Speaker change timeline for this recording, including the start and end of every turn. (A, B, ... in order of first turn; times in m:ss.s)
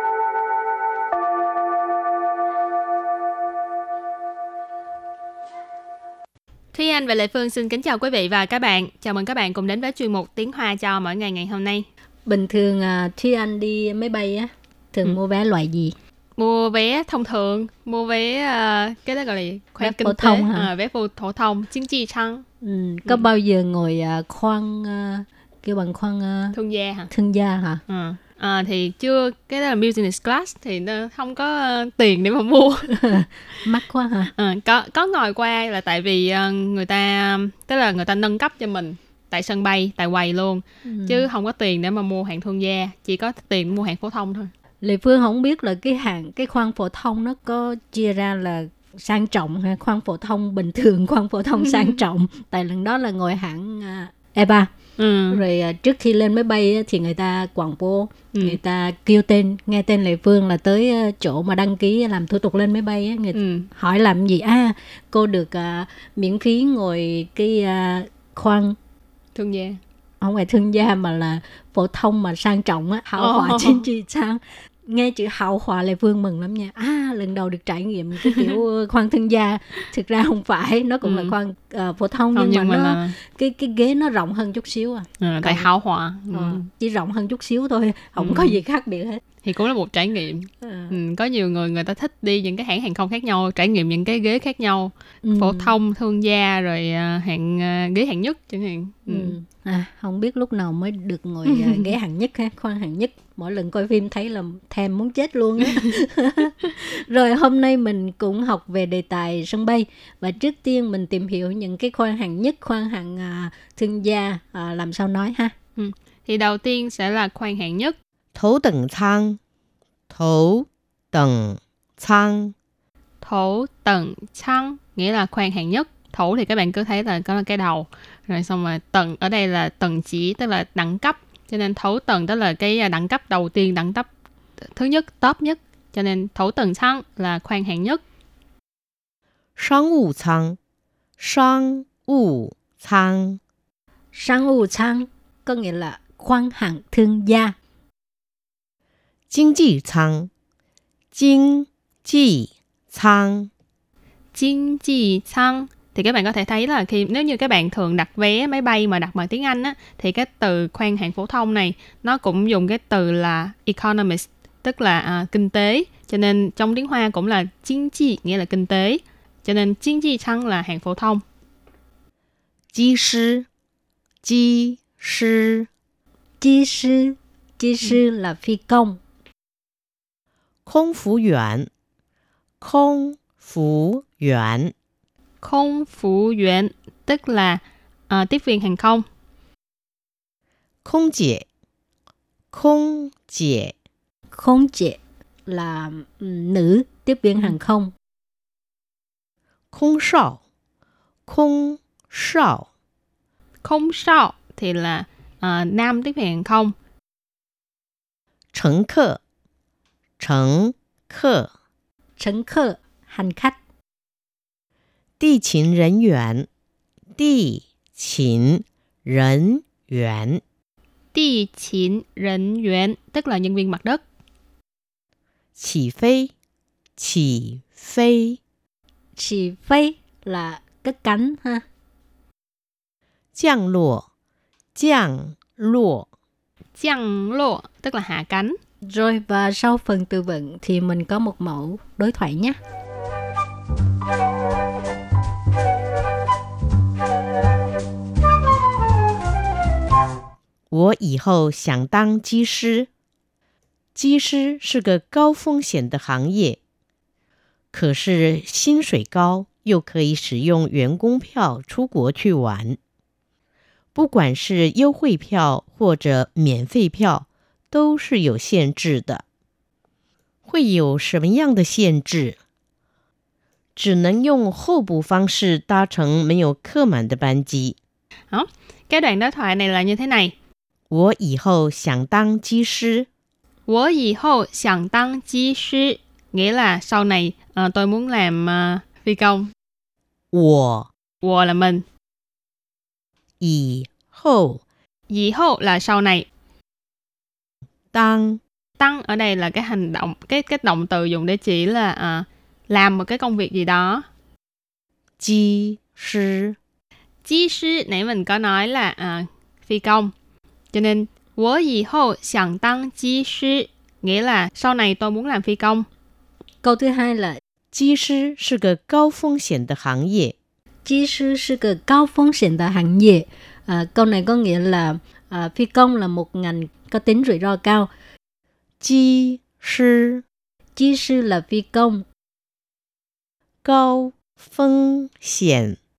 0:06.7-0:11.9 A
0:12.3-0:16.0 B
0:16.4-0:22.4 A
0:19.8-0:20.7 B
0:22.6-0:26.6 B
0:26.5-0:27.1 A
0:27.1-0:27.8 B
0:27.9-0:33.6 A
0:32.9-0:34.3 B
0:34.4-0:44.5 A
0:40.8-0:41.3 B
0:44.8-0:54.7 B
0:51.7-0:52.0 A
0:55.0-0:55.4 A
0:55.3-1:08.8 B
0:58.3-0:58.6 A
1:03.3-1:03.7 A
1:09.4-1:09.8 A
1:10.2-1:25.7 B
1:13.2-1:13.9 A
1:18.2-1:18.6 A
1:21.0-1:21.4 A
1:22.4-1:23.2 A
1:25.2-1:26.6 A
1:26.3-1:29.2 B
1:28.2-1:28.6 A
1:29.4-1:39.4 A
1:30.6-1:31.0 B
1:35.2-1:35.8 B
1:39.1-1:55.5 B
1:41.5-1:41.9 A
1:45.6-1:45.9 A
1:55.8-1:58.0 A
1:58.4-1:59.4 C
2:00.1-2:02.6 C
2:03.2-2:14.1 A
2:14.7-2:18.0 A
2:19.6-2:20.6 C
2:21.2-2:23.4 C
2:24.1-2:27.6 B
2:29.3-2:30.3 C
2:31.1-2:33.5 C
2:34.3-2:51.2 A
2:52.7-2:53.5 C
2:54.2-2:55.7 C
2:56.4-2:59.0 B
3:00.7-3:01.7 C
3:02.6-3:04.7 C
3:05.4-3:09.1 A
3:10.8-3:11.5 C
3:12.5-3:13.7 C
3:14.3-3:17.9 B
3:19.7-3:20.4 C
3:21.3-3:22.7 C
3:23.6-3:26.8 A
3:28.5-3:29.2 C
3:30.2-3:31.5 C
3:32.2-3:33.6 B
3:35.2-3:36.5 C
3:37.2-3:40.4 C
3:41.1-3:44.0 A
3:45.6-3:46.3 C
3:47.0-3:48.4 C
3:49.2-3:51.6 B
3:53.4-3:54.1 C
3:54.8-3:56.1 C
3:56.8-3:58.6 A
3:58.9-4:02.6 B
4:10.7-4:12.9 C
4:14.0-4:16.6 C
4:17.7-4:22.8 C
4:24.0-4:29.2 C
4:30.5-4:32.4 C
4:33.8-4:37.8 C
4:38.3-4:40.3 A
4:40.9-4:43.1 C
4:43.7-4:49.5 A
4:50.3-4:50.9 C
4:51.2-4:51.8 A
4:53.4-4:54.6 C
4:55.1-4:56.3 A
4:57.9-4:58.4 C
4:58.8-5:04.1 A
5:05.2-5:06.6 C
5:07.2-5:10.1 A
5:10.7-5:15.9 A
5:16.6-5:17.4 B
5:17.7-5:20.4 C
5:20.8-5:27.9 B
5:28.8-5:30.2 C
5:30.8-5:32.0 B
5:33.6-5:35.8 C